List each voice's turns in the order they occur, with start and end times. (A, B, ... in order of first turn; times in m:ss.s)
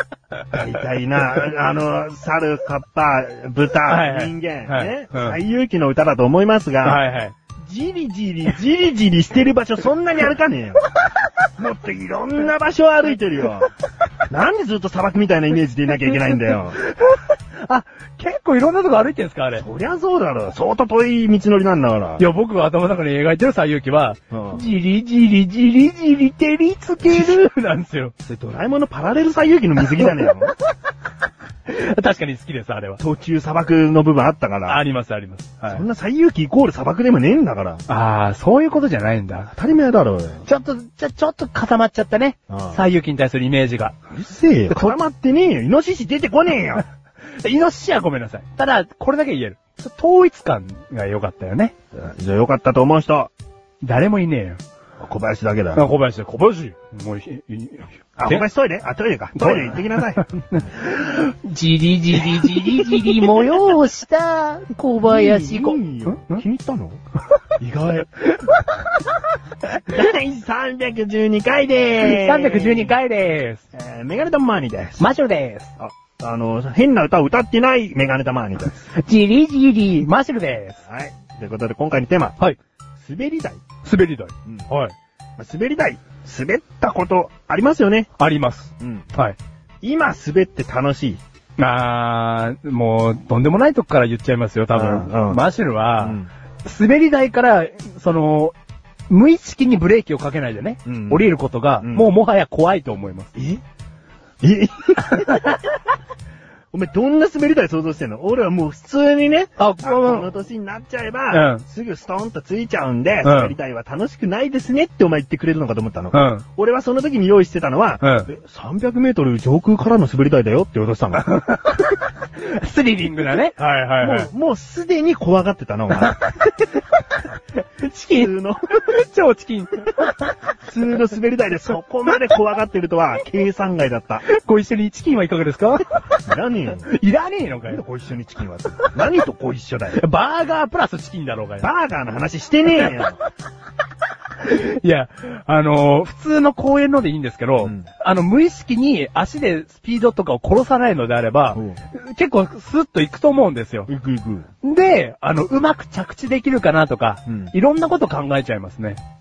0:00.5-0:07.0 A
0:03.9-0:05.4 B
0:06.8-0:07.4 B
0:07.6-0:10.8 A
0:11.6-0:13.7 A
0:14.3-0:16.8 A
0:16.8-0:19.6 B
0:19.6-0:22.2 A
0:22.2-0:28.1 B
0:24.3-0:24.6 A
0:28.2-0:30.5 A
0:31.7-0:33.0 B
0:33.0-0:34.8 A
0:34.7-0:35.8 B
0:35.6-0:37.8 A
0:37.9-0:39.5 B
0:39.5-0:40.4 A
0:40.4-0:44.0 B
0:42.5-0:42.8 A
0:44.1-0:46.8 A
0:44.7-0:45.0 B
0:47.4-0:51.7 B
0:51.9-0:53.3 A
0:53.8-0:54.6 B
0:55.0-0:55.8 A
0:55.7-0:58.4 B
0:58.2-1:00.2 A
0:59.3-1:06.4 B
1:02.6-1:03.1 A
1:05.0-1:07.0 A
1:07.6-1:08.0 A
1:08.2-1:08.8 B
1:09.8-1:12.9 A
1:12.0-1:13.6 B
1:13.7-1:15.0 A
1:15.0-1:15.7 B
1:15.8-1:18.8 A
1:18.8-1:20.8 B
1:20.8-1:22.4 A
1:23.0-1:23.6 A
1:23.8-1:24.9 B
1:25.4-1:28.1 A
1:28.2-1:29.4 B
1:28.8-1:29.1 A
1:29.8-1:31.2 A
1:31.6-1:38.5 B
1:34.7-1:35.4 A
1:36.0-1:36.3 A
1:39.1-1:43.3 B
1:40.8-1:41.3 A
1:41.8-1:42.1 A
1:43.3-1:43.6 A
1:44.4-1:45.6 A
1:45.1-1:45.6 B
1:46.7-2:01.2 A
1:49.6-1:50.3 B
1:51.3-1:51.6 B
1:53.2-1:53.5 B
1:56.1-1:56.4 B
1:58.0-1:58.3 B
2:01.2-2:04.3 B
2:04.0-2:06.2 A
2:06.1-2:06.5 B
2:07.6-2:10.4 B
2:08.2-2:08.6 A
2:10.6-2:14.2 A
2:14.2-2:16.2 B
2:16.2-2:16.9 A
2:16.8-2:17.8 B
2:17.6-2:20.0 A
2:19.9-2:21.7 B
2:21.6-2:23.2 A
2:24.4-2:33.9 B
2:33.9-2:34.5 A
2:34.6-2:39.0 B
2:37.3-2:37.5 A